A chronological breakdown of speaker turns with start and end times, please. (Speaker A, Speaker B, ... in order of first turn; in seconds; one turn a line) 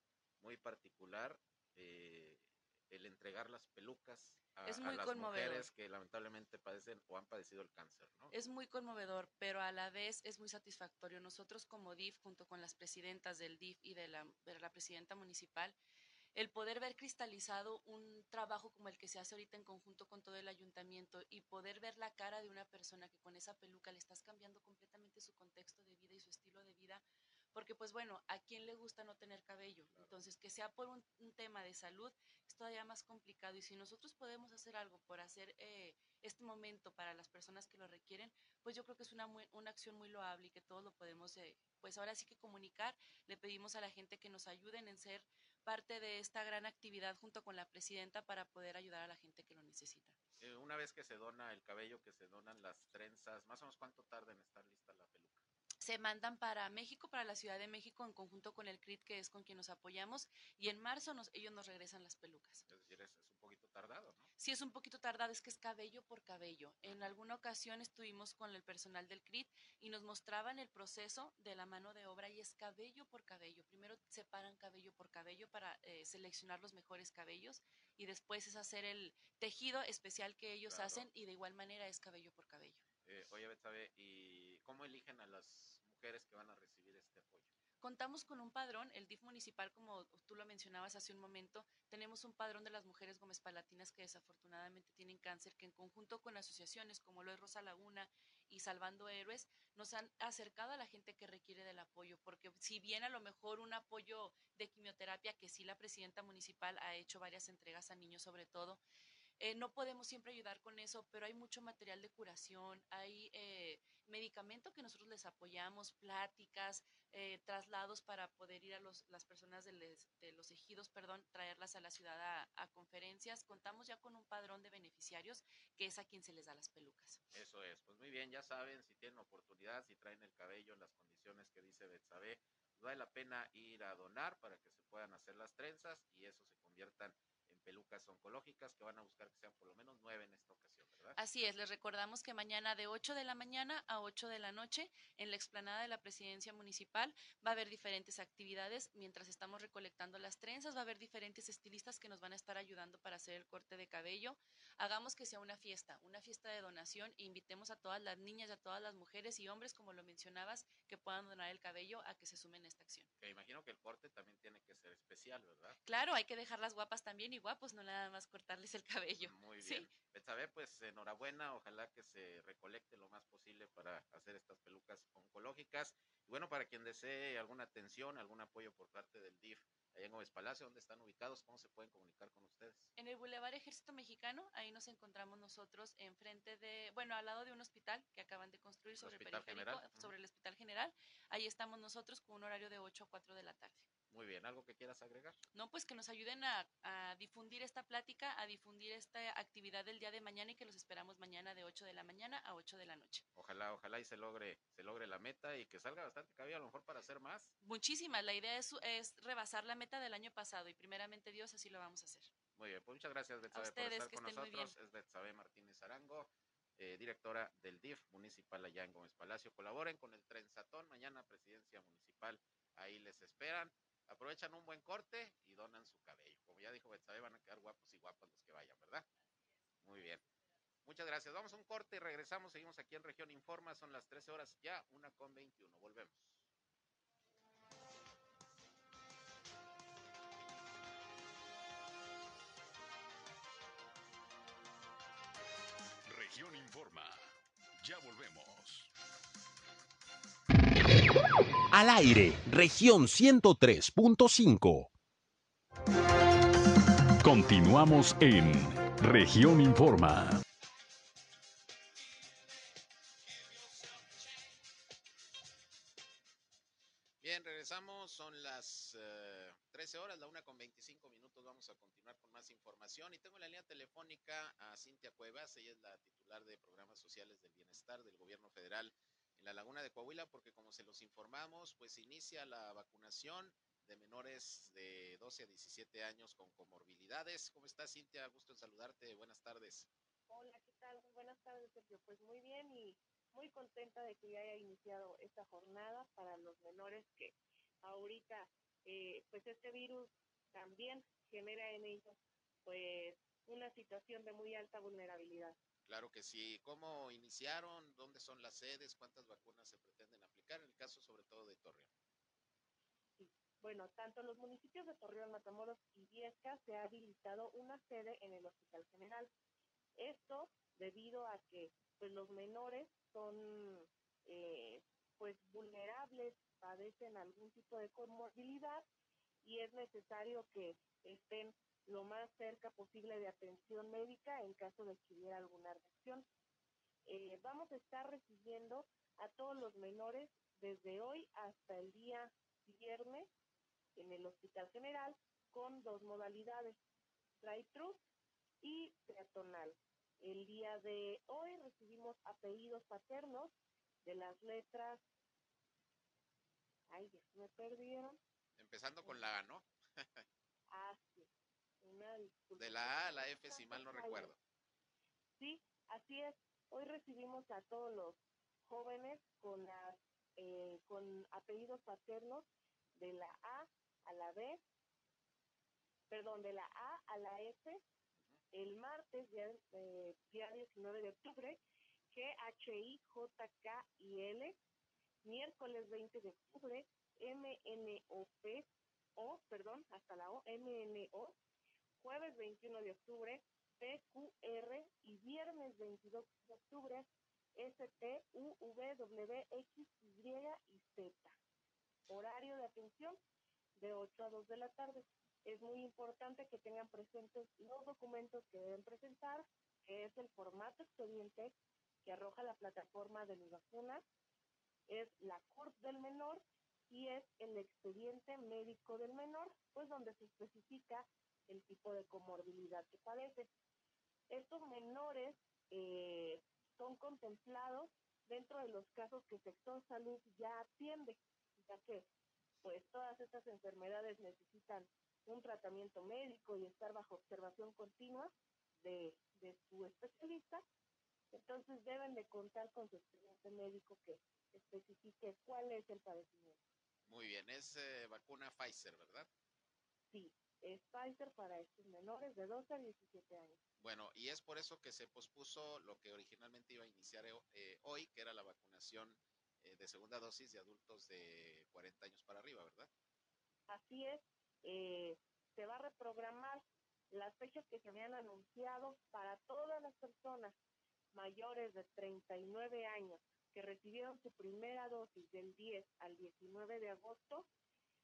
Speaker A: 0.4-8.3
Speaker B: 4.6-5.7
Speaker B: 8.3-15.8
Speaker B: 16.3-50.1
Speaker A: 29.9-30.2
Speaker A: 50.4-55.4
Speaker B: 55.8-62.6
Speaker A: 62.7-64.3
Speaker B: 64.4-82.8
Speaker A: 80.7-81.1
Speaker A: 83.0-87.5
Speaker B: 87.8-108.8
Speaker B: 109.4-127.2
Speaker A: 127.3-141.2
Speaker B: 141.1-163.1
Speaker A: 163.2-165.8
Speaker B: 165.8-169.9
Speaker A: 169.2-182.9
Speaker B: 183.0-193.9
Speaker A: 188.9-190.1
Speaker A: 194.1-195.4
Speaker B: 195.5-203.2
Speaker A: 203.3-207.5
Speaker B: 207.6-212.3
Speaker A: 212.5-229.1
Speaker B: 213.5-214.7
Speaker A: 229.8-230.2
Speaker A: 230.8-236.4
Speaker C: 246.1-248.9
Speaker D: 251.7-254.9
Speaker C: 257.2-260.4
Speaker A: 267.2-289.9
Speaker E: 290.3-305.6
Speaker A: 305.9-311.9
Speaker E: 313.2-319.3
Speaker E: 319.9-328.9
Speaker E: 329.4-336.2
Speaker E: 337.0-343.3
Speaker E: 343.9-346.8
Speaker E: 347.4-348.0
Speaker E: 348.6-355.0
Speaker E: 356.9-358.2
Speaker A: 358.6-360.2
Speaker E: 360.7-361.3
Speaker E: 361.8-364.3
Speaker A: 362.6-364.4
Speaker E: 365.4-374.6
Speaker E: 376.1-377.8
Speaker E: 378.5-381.6
Speaker E: 382.1-384.6
Speaker E: 385.2-391.4
Speaker E: 392.0-401.4
Speaker E: 402.1-403.2
Speaker E: 403.8-414.0
Speaker E: 414.9-423.5
Speaker E: 424.3-432.1
Speaker E: 432.6-440.6
Speaker E: 441.3-446.6
Speaker A: 447.1-449.3
Speaker E: 450.1-453.6
Speaker A: 453.8-462.9
Speaker E: 463.7-470.5
Speaker E: 471.1-477.5